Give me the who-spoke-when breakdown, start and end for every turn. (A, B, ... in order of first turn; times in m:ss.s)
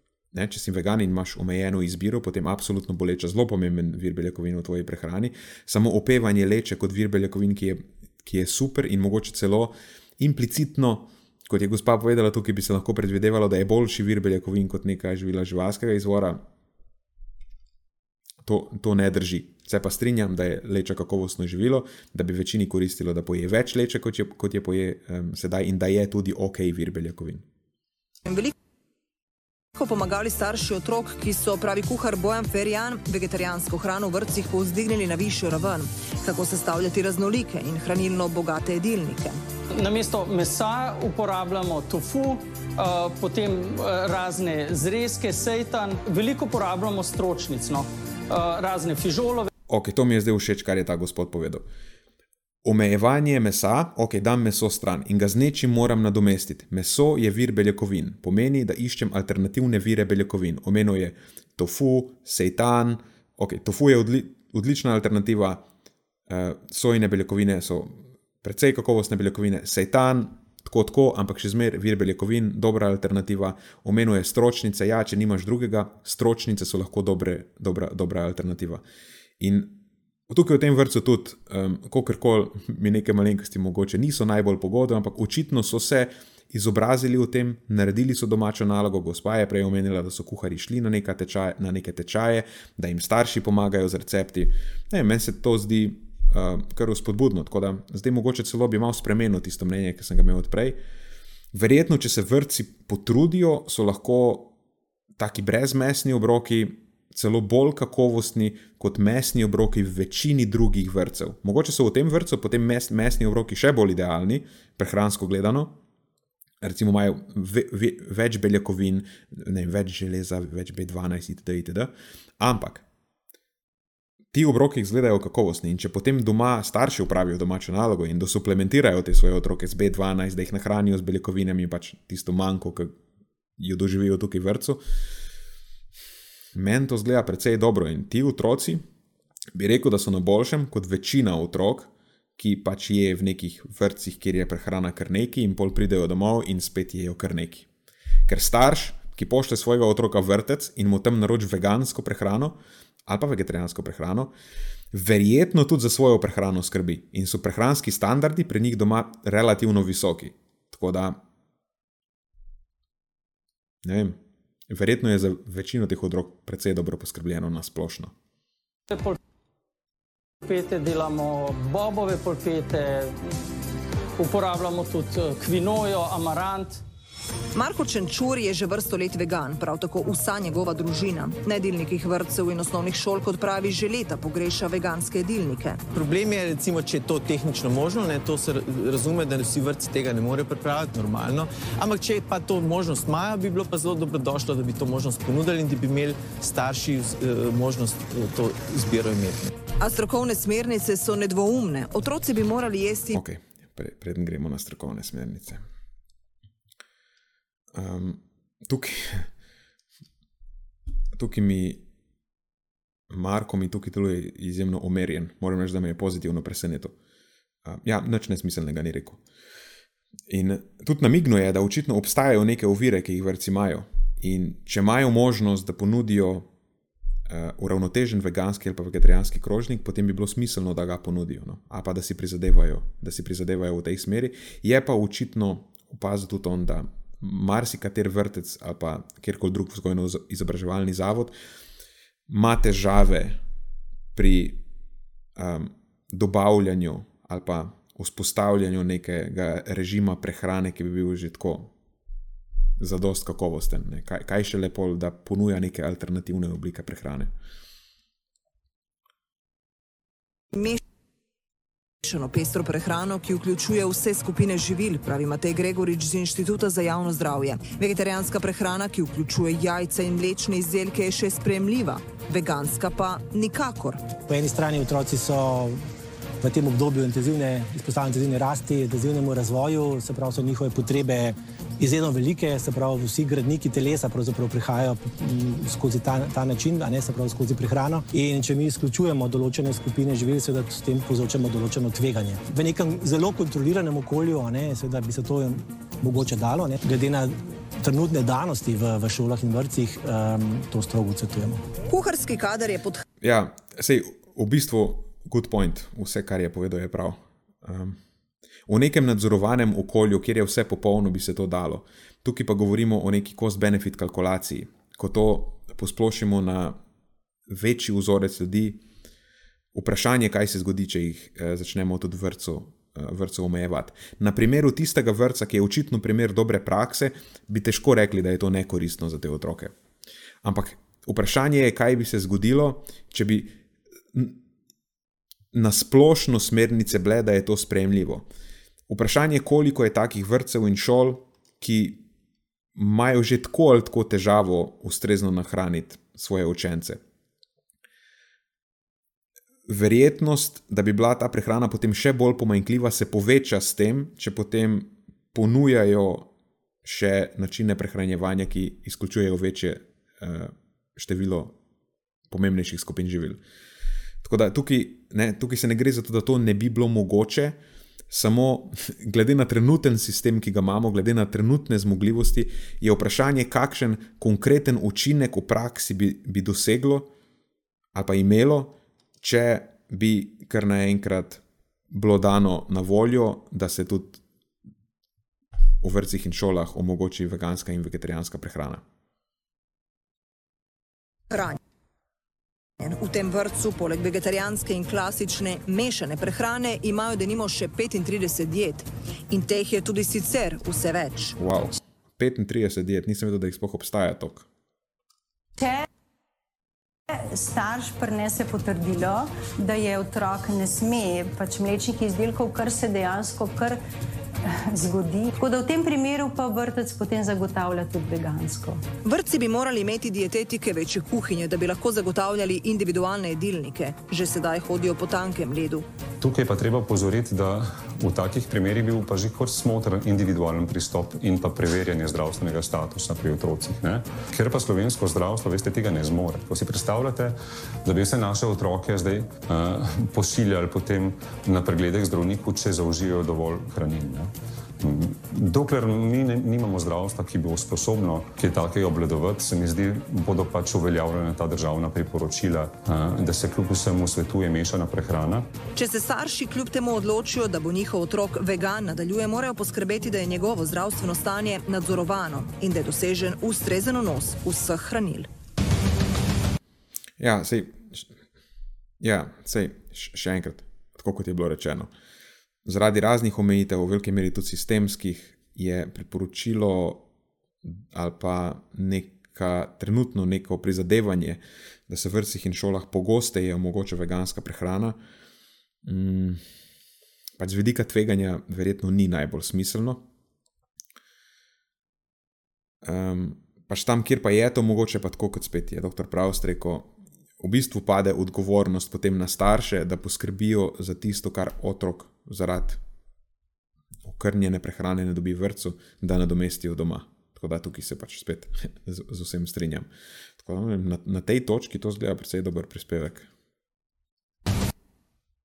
0:00.3-0:16.4 A
0:18.4-0:27.4 A
0:28.2-0:28.5 B
0:29.7-0:39.4 B
0:39.8-0:49.5 C
0:49.7-0:51.6 A
0:52.6-1:05.6 A
1:06.3-1:18.8 A
1:19.4-1:40.8 A
1:41.5-1:44.5 A
1:45.2-1:55.8 A
1:56.6-2:02.8 A
2:04.3-2:12.9 A
2:13.6-2:14.8 A
2:16.5-2:18.8 A
2:19.5-2:27.7 A
2:28.3-2:34.3 A
2:34.9-2:41.2 A
2:43.8-2:44.2 A
2:44.7-2:48.1 A
2:48.9-2:49.2 C
2:50.4-2:53.3 C
2:54.2-2:56.8 C
2:57.5-3:05.8 B
3:05.9-3:19.5 D
3:19.8-3:23.2 B
3:23.1-3:25.6 A
3:27.7-3:29.3 A
3:31.2-3:31.8 A
3:33.1-3:36.9 A
3:37.6-3:39.2 A
3:40.3-3:46.5 A
3:47.3-4:01.3 A
4:02.3-4:03.4 A
4:04.1-4:04.6 A
4:05.4-4:11.7 A
4:12.8-4:17.3 A
4:20.5-4:20.8 B
4:22.0-4:34.0 B
4:34.3-4:35.8 E
4:36.4-5:01.6 E
5:01.9-5:03.0 B
5:03.2-5:08.0 A
5:08.7-5:16.8 A
5:17.5-5:18.8 A
5:19.7-5:29.7 A
5:30.4-5:33.6 A
5:35.5-5:38.3 A
5:38.9-5:42.0 A
5:42.8-5:47.0 A
5:49.7-5:56.3 A
5:56.8-6:01.6 A
6:02.3-6:03.4 A
6:04.2-6:07.6 A
6:08.1-6:17.1 A
6:17.9-6:24.2 A
6:25.8-6:28.8 A
6:31.3-6:31.6 B
6:32.8-6:41.4 B
6:41.4-6:44.5 A
6:45.6-6:45.8 F
6:47.3-6:53.8 F
6:54.5-6:58.8 F
6:59.0-7:05.8 B
7:06.2-7:35.5 G
7:35.8-7:45.3 B
7:47.2-7:48.1 A
7:49.0-7:51.9 A
7:52.6-7:57.0 A
7:57.6-8:05.0 A
8:05.8-8:06.4 A
8:07.4-8:10.0 A
8:12.8-8:22.8 A
8:24.0-8:29.9 A
8:30.4-8:33.3 A